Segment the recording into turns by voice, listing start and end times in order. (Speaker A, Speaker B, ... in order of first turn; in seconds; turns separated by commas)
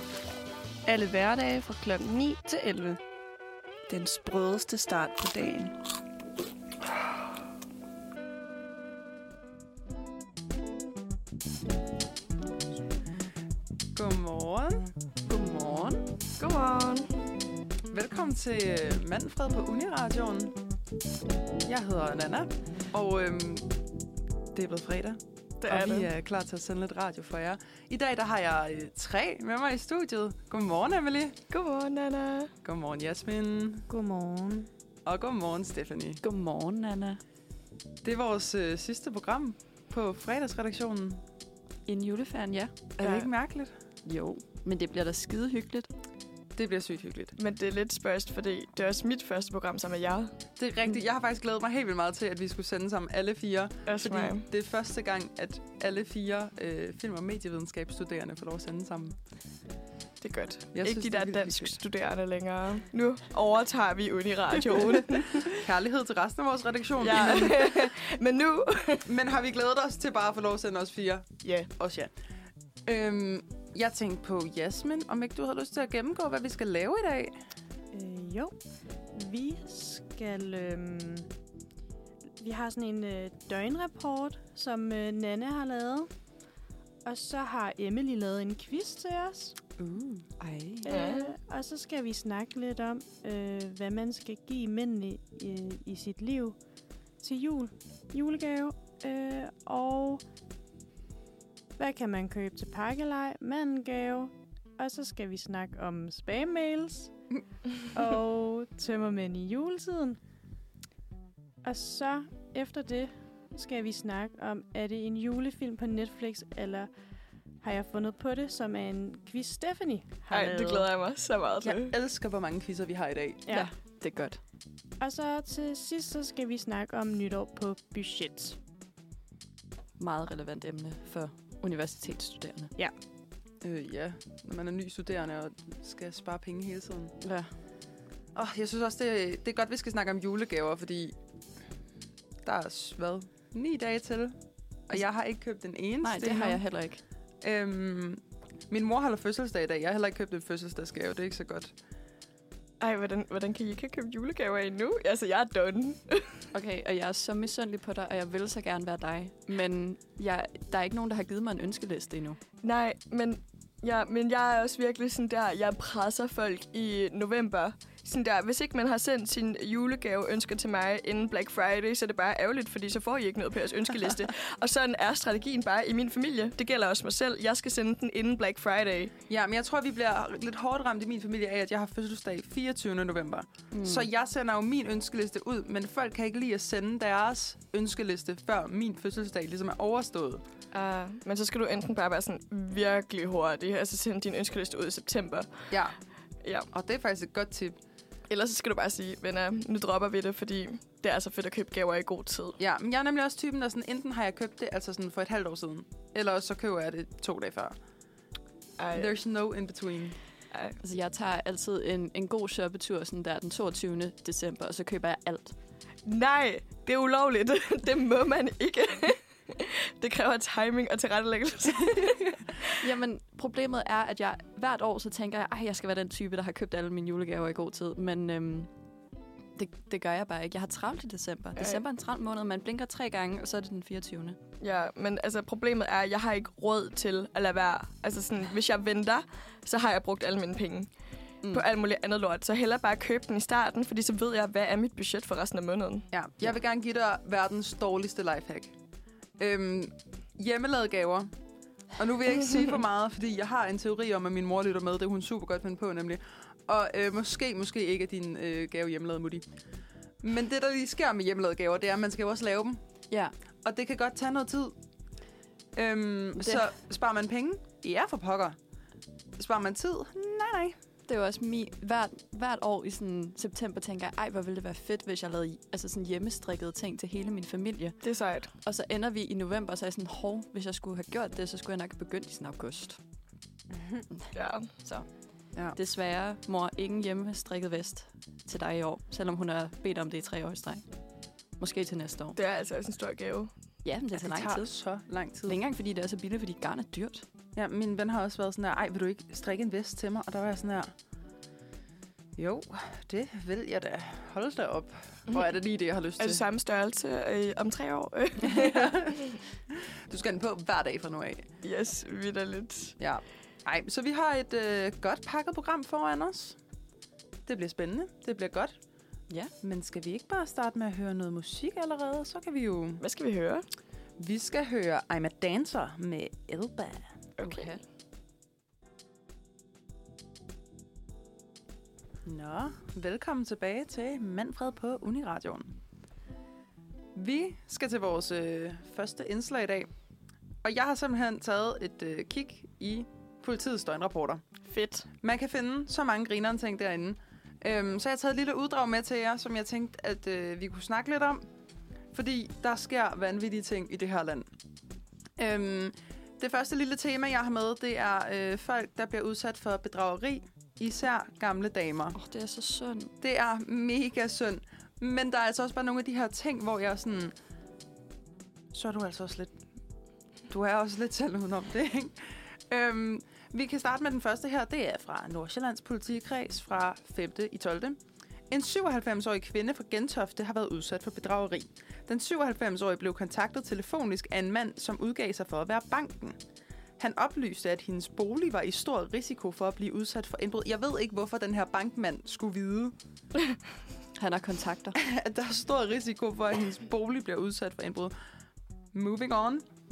Speaker A: 0.8-3.0, Speaker A: 3.9-5.7, Speaker B: 13.9-14.9, Speaker C: 15.3-16.1, Speaker D: 16.4-17.1, Speaker B: 17.9-20.6, Speaker B: 21.6-23.7, Speaker B: 24.5-31.4, Speaker D: 25.6-26.1, Speaker D: 31.5-32.5, Speaker B: 32.6-33.9, Speaker E: 33.9-34.7, Speaker B: 35.0-36.2, Speaker C: 36.2-37.2, Speaker B: 38.0-41.2, Speaker C: 41.9-42.9, Speaker B: 43.0-43.7, Speaker C: 44.0-45.9, Speaker B: 46.5-47.4, Speaker D: 47.4-50.3, Speaker B: 50.6-59.2, Speaker D: 53.9-54.5, Speaker D: 60.2-65.6, Speaker B: 60.7-61.8, Speaker B: 64.6-67.9, Speaker D: 67.0-69.1, Speaker B: 69.0-72.1, Speaker D: 71.4-71.7, Speaker B: 72.8-77.4, Speaker E: 77.9-78.5, Speaker E: 79.1-81.3, Speaker E: 82.4-86.1, Speaker E: 87.0-89.5, Speaker B: 89.8-90.9, Speaker E: 90.8-96.6, Speaker D: 90.9-91.3, Speaker E: 97.2-100.2, Speaker E: 101.8-107.1, Speaker E: 107.9-110.2, Speaker E: 111.6-116.9, Speaker E: 117.6-120.9, Speaker D: 120.3-121.9, Speaker B: 121.6-123.5, Speaker C: 123.5-124.4, Speaker E: 125.0-128.6, Speaker C: 130.0-132.7, Speaker B: 133.6-137.2, Speaker C: 137.2-137.5, Speaker B: 138.3-141.2, Speaker B: 142.4-144.3, Speaker B: 144.9-146.6, Speaker C: 146.0-147.0, Speaker B: 147.4-151.7, Speaker D: 152.8-156.4, Speaker C: 156.5-162.4, Speaker D: 162.6-179.1, Speaker B: 179.3-190.4, Speaker C: 183.7-184.1, Speaker D: 190.7-195.7, Speaker B: 195.7-196.0, Speaker B: 196.7-197.8, Speaker D: 198.3-202.6, Speaker B: 202.6-207.7, Speaker D: 208.8-209.1, Speaker B: 208.9-210.2, Speaker D: 210.5-210.8, Speaker C: 210.8-215.5, Speaker D: 216.0-222.6, Speaker C: 222.8-228.7, Speaker C: 229.6-234.4, Speaker D: 234.6-240.9, Speaker D: 241.5-246.1, Speaker B: 246.1-248.7, Speaker B: 249.4-251.3, Speaker B: 251.9-259.4, Speaker B: 260.2-262.8, Speaker B: 263.6-264.8, Speaker B: 265.7-268.6, Speaker C: 266.4-266.6, Speaker B: 269.4-270.8, Speaker C: 271.1-278.0, Speaker D: 278.0-278.5, Speaker C: 278.6-283.0, Speaker C: 284.1-285.1, Speaker D: 284.3-284.7, Speaker C: 285.7-290.8, Speaker C: 291.6-292.4, Speaker D: 292.4-293.5, Speaker C: 293.8-294.7, Speaker B: 294.1-295.6, Speaker C: 295.4-297.2, Speaker B: 297.5-300.9, Speaker B: 302.4-306.4, Speaker D: 306.2-309.4, Speaker B: 308.4-311.5, Speaker D: 311.6-312.9, Speaker B: 313.0-316.6, Speaker B: 317.4-318.7, Speaker B: 319.6-323.0, Speaker D: 323.0-323.6, Speaker B: 324.2-327.1, Speaker D: 327.4-327.8, Speaker C: 327.4-327.8, Speaker B: 332.2-335.8, Speaker B: 337.1-339.9, Speaker B: 340.6-344.4, Speaker D: 344.7-345.1, Speaker B: 345.2-351.4, Speaker B: 352.1-354.5, Speaker B: 355.4-362.2, Speaker C: 362.1-363.1, Speaker B: 363.2-367.3, Speaker B: 368.7-369.5, Speaker B: 370.5-378.0, Speaker B: 378.5-386.4, Speaker B: 387.0-392.9, Speaker C: 394.1-395.0, Speaker B: 395.0-398.1, Speaker B: 398.9-399.6